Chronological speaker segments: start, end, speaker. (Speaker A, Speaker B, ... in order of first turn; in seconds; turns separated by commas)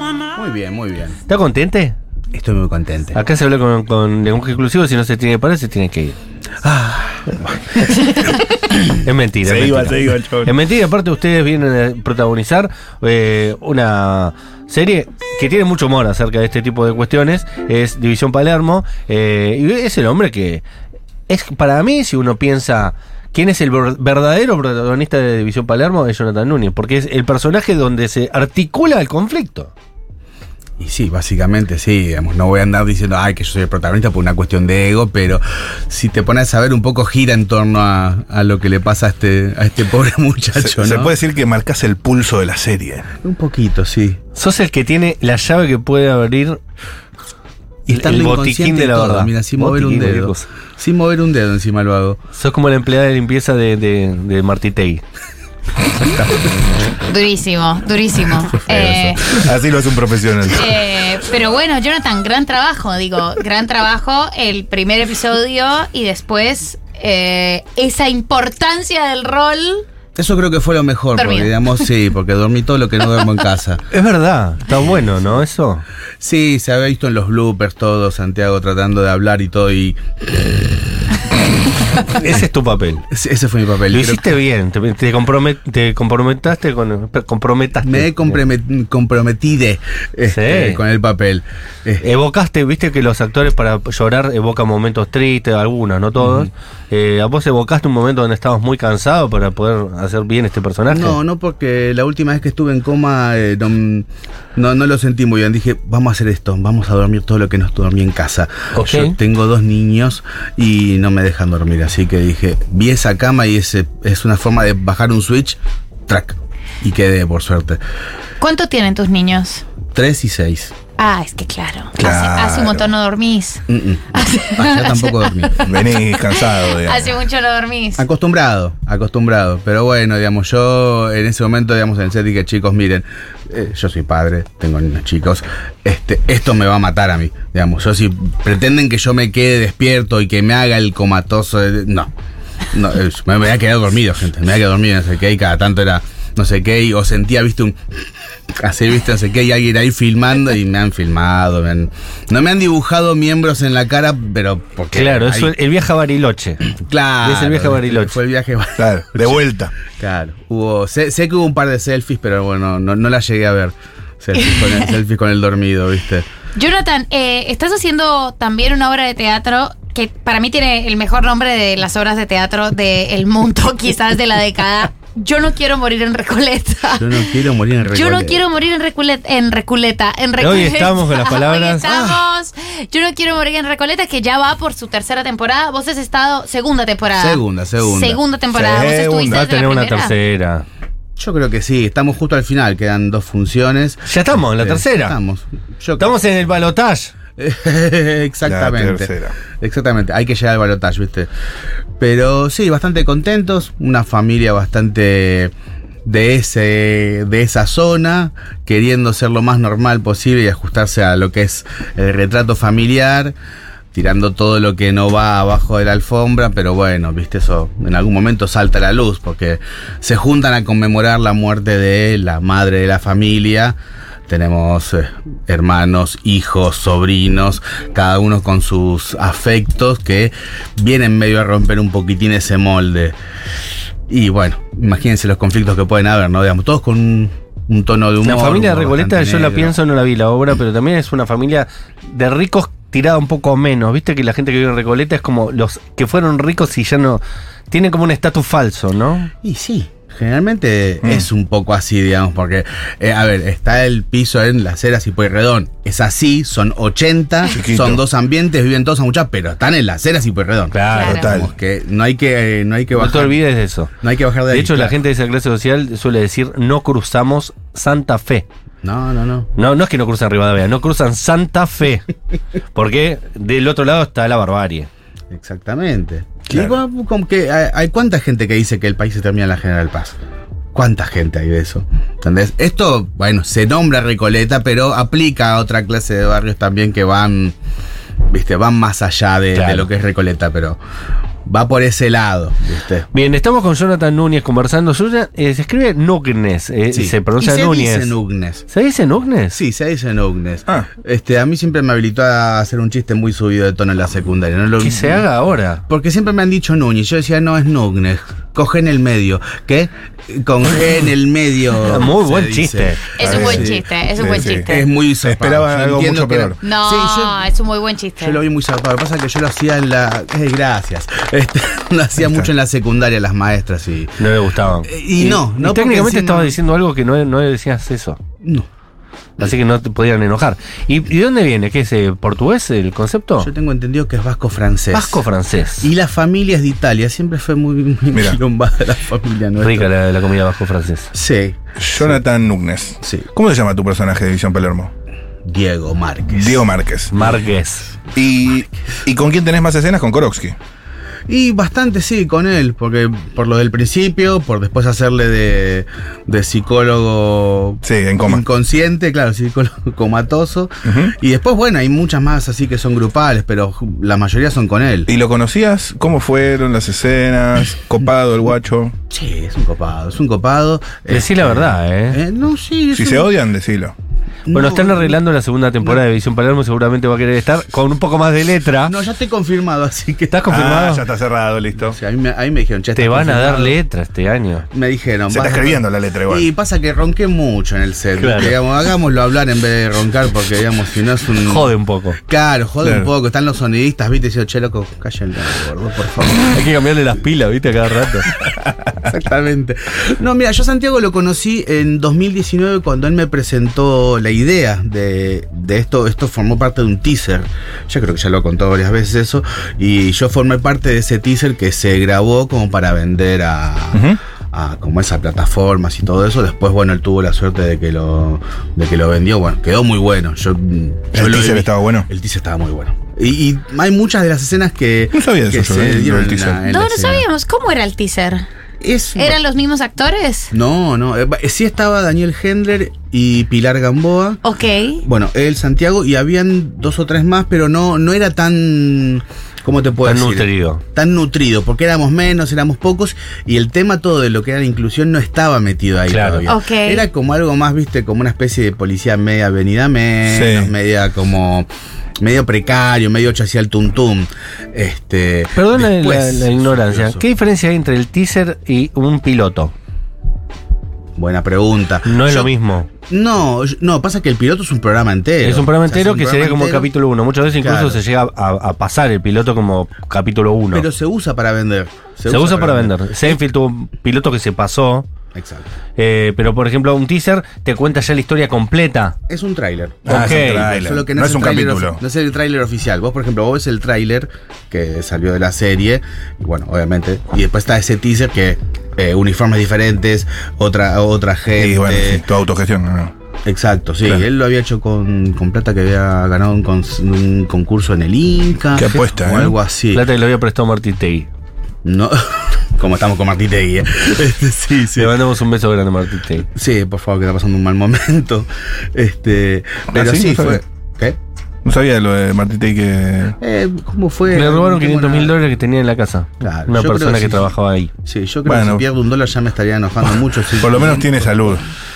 Speaker A: 0.3-1.2, Speaker B: 1.3-1.9, Speaker A: 2.3-3.2, Speaker B: 3.1-6.2, Speaker A: 6.6-8.8, Speaker B: 9.0-20.6, Speaker C: 9.4-10.6, Speaker B: 21.3-29.7, Speaker A: 30.8-41.1, Speaker C: 40.6-43.1, Speaker A: 43.2-44.2, Speaker B: 44.4-46.6, Speaker A: 47.9-52.2, Speaker B: 47.9-50.5, Speaker B: 52.3-55.0, Speaker A: 56.0-56.6, Speaker D: 57.0-59.3, Speaker C: 58.6-61.1, Speaker D: 60.5-69.8, Speaker A: 70.2-73.8, Speaker D: 71.2-71.8, Speaker B: 73.9-75.8, Speaker A: 76.2-81.4, Speaker B: 82.1-83.0, Speaker A: 82.2-82.4, Speaker A: 83.1-84.2, Speaker B: 83.9-88.4, Speaker A: 87.8-92.0, Speaker B: 90.3-90.8, Speaker B: 92.0-101.2, Speaker A: 96.2-96.5, Speaker A: 100.9-117.8, Speaker B: 108.7-109.1, Speaker D: 118.4-119.6, Speaker A: 119.9-120.7, Speaker D: 121.0-123.6, Speaker C: 122.0-122.9, Speaker A: 123.7-125.7, Speaker D: 124.1-128.0, Speaker C: 125.6-127.2, Speaker A: 128.0-142.1, Speaker A: 142.7-147.8, Speaker A: 148.6-155.5, Speaker B: 154.9-156.6, Speaker A: 156.8-166.2, Speaker B: 157.2-158.2, Speaker C: 158.8-159.7, Speaker D: 164.3-164.8, Speaker D: 166.5-177.3, Speaker A: 176.9-178.4, Speaker D: 177.9-190.1, Speaker B: 180.4-181.9, Speaker A: 181.8-182.2, Speaker A: 187.1-188.2, Speaker C: 188.5-189.4, Speaker B: 189.3-190.6, Speaker A: 191.2-196.2, Speaker B: 194.1-195.2, Speaker B: 196.0-197.1, Speaker A: 197.4-201.3, Speaker C: 198.4-199.3, Speaker A: 202.0-205.5, Speaker A: 206.1-213.3, Speaker A: 213.9-223.8, Speaker A: 224.3-233.2, Speaker A: 234.1-239.7, Speaker B: 238.2-249.3, Speaker A: 249.4-263.4, Speaker C: 257.5-258.0, Speaker B: 260.7-261.2, Speaker D: 260.9-261.3, Speaker C: 261.0-261.5, Speaker B: 262.9-263.9, Speaker A: 264.0-264.9, Speaker B: 264.5-268.4, Speaker A: 268.8-269.5, Speaker B: 269.6-272.1, Speaker B: 272.7-274.9, Speaker A: 275.3-280.2, Speaker C: 276.5-276.8, Speaker A: 280.7-287.5, Speaker A: 288.3-290.8, Speaker B: 289.5-289.9, Speaker A: 291.4-293.1, Speaker B: 293.1-298.1, Speaker A: 296.9-298.6, Speaker B: 298.7-299.6, Speaker A: 299.5-305.2, Speaker B: 304.8-305.8, Speaker A: 305.9-313.9, Speaker B: 311.8-313.0, Speaker D: 313.1-314.9, Speaker C: 313.2-316.6, Speaker A: 314.6-317.5, Speaker D: 316.6-318.4, Speaker A: 318.2-324.2, Speaker C: 322.2-322.5, Speaker B: 324.2-328.2, Speaker A: 324.8-326.6, Speaker B: 329.4-333.5, Speaker A: 333.4-335.2, Speaker B: 334.9-335.9, Speaker A: 335.8-339.9, Speaker C: 338.1-338.4, Speaker B: 339.6-341.1, Speaker A: 341.1-342.2, Speaker C: 341.8-344.9, Speaker A: 345.4-346.7, Speaker C: 346.3-347.1, Speaker B: 347.1-347.9, Speaker C: 348.1-350.6, Speaker A: 351.3-365.1, Speaker C: 357.8-358.4, Speaker C: 360.8-361.1, Speaker C: 365.1-368.9, Speaker A: 369.1-373.3, Speaker B: 371.1-372.2, Speaker C: 372.9-373.9, Speaker A: 374.4-375.2, Speaker B: 374.5-379.0, Speaker A: 378.9-380.4, Speaker B: 380.3-381.0, Speaker C: 380.5-382.0, Speaker A: 381.8-383.8, Speaker B: 382.9-384.6, Speaker A: 384.7-391.7, Speaker C: 385.3-386.5, Speaker B: 388.2-388.6, Speaker B: 391.4-392.2, Speaker A: 392.2-396.5, Speaker C: 392.8-393.1, Speaker B: 396.3-398.3, Speaker A: 398.9-427.2, Speaker C: 413.9-414.2, Speaker C: 421.1-422.1, Speaker C: 425.1-426.6, Speaker D: 426.6-428.4, Speaker A: 428.8-429.4, Speaker D: 429.1-430.5, Speaker A: 430.5-434.4, Speaker D: 434.4-435.0, Speaker A: 435.0-451.7, Speaker B: 440.0-440.8, Speaker B: 446.1-446.5, Speaker D: 446.4-447.0, Speaker C: 450.3-450.7, Speaker A: 452.2-457.2, Speaker B: 455.6-459.7, Speaker A: 461.2-462.5, Speaker B: 462.0-462.9, Speaker A: 463.1-466.9, Speaker B: 465.4-470.9, Speaker A: 467.6-468.0, Speaker A: 470.7-473.4, Speaker B: 472.3-475.1, Speaker A: 475.3-475.7, Speaker B: 476.0-479.1, Speaker A: 479.3-492.2, Speaker B: 480.1-480.7, Speaker C: 480.1-482.0, Speaker C: 491.6-493.1, Speaker A: 493.4-500.0, Speaker C: 498.7-499.6, Speaker B: 499.9-501.3, Speaker A: 501.8-505.1, Speaker B: 504.9-506.4, Speaker A: 506.5-511.2, Speaker C: 509.9-510.6, Speaker C: 511.6-513.4, Speaker A: 513.4-515.4, Speaker B: 514.3-517.9, Speaker A: 516.4-517.5, Speaker A: 518.0-521.6, Speaker C: 518.5-518.8, Speaker C: 520.1-521.7